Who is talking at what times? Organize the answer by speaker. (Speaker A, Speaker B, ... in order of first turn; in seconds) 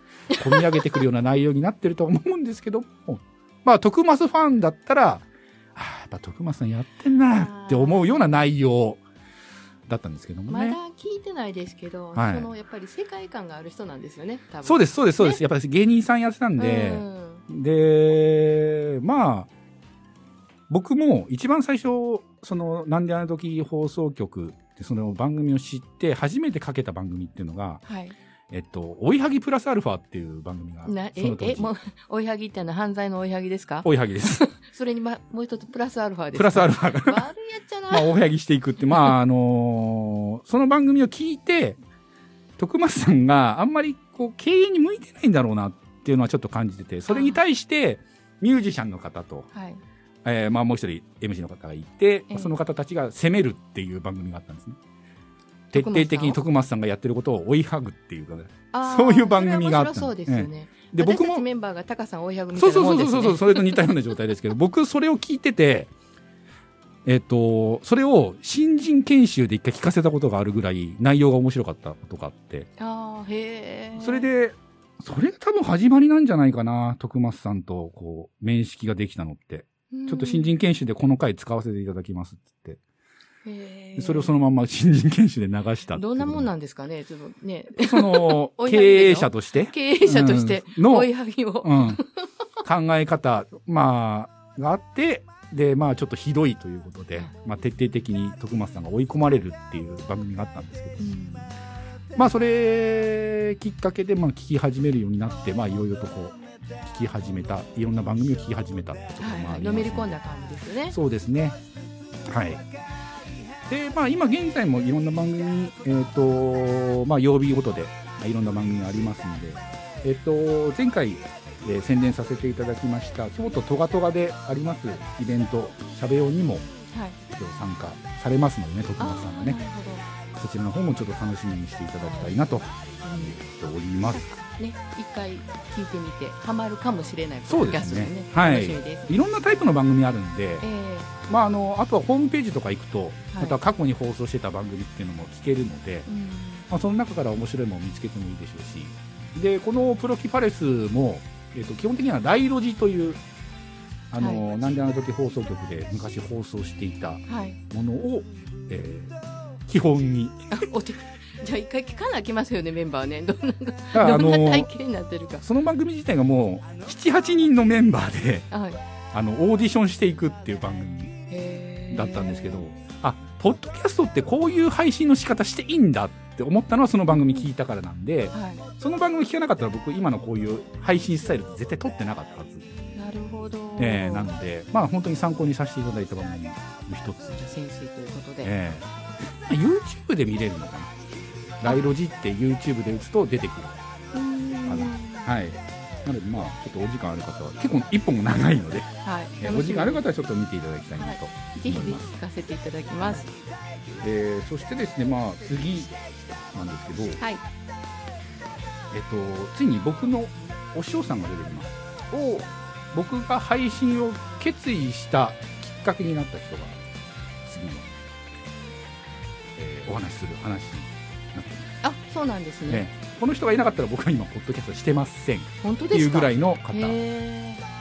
Speaker A: 0.4-9.0, 9.9-10.8, 12.2-12.5, 14.6-19.5, 20.7-27.8, 28.5-31.7, 33.8-34.4, 36.3-37.3, 37.9-41.8, 42.6-49.5, 50.2-54.8, 55.7-61.5, 62.5-65.9, 67.0-72.7, 74.0-82.8, 84.0-86.5, 87.8-91.1, 91.6-92.0, 92.6-101.2, 102.2-110.2, 110.9-111.6, 112.3-112.6, 113.7-126.7, 127.3-129.6, 130.3-134.2, 137.5-140.7, 141.3-146.1, 146.7-153.2, 154.1-159.2, 159.7-160.4, 163.9-164.7, 165.4-168.5, 169.1-171.2, 171.9-182.7, 183.8-187.4, 188.4-191.0, 191.6-193.8, 194.7-202.1, 204.0-206.0, 206.5-207.2, 208.9-216.8, 217.4-217.9, 219.6-221.7, 222.7-227.0
Speaker B: 0.4-0.8, 7.3-8.4, 10.5-15.4, 16.6-17.4, 27.9-28.2, 30.9-38.1, 47.1-47.4, 49.5-49.8, 52.3-52.5, 55.7-56.4, 58.7-63.8, 72.8-74.3, 79.9-80.5, 83.5-84.3, 85.9-92.2, 101.0-101.5, 109.2-111.0, 126.9-127.2, 129.0-130.1, 132.0-132.4, 133.0-133.4, 134.0-139.1, 140.6-141.3, 143.3-143.6, 146.1-146.7, 154.2-154.4, 157.3-157.6, 160.5-165.4, 168.5-168.8, 171.3-172.7, 177.2-177.4, 178.3-178.7, 182.9-184.3, 187.3-188.5, 194.1-195.3, 199.0-200.0, 201.0-203.3, 221.8-222.9, 225.6-227.6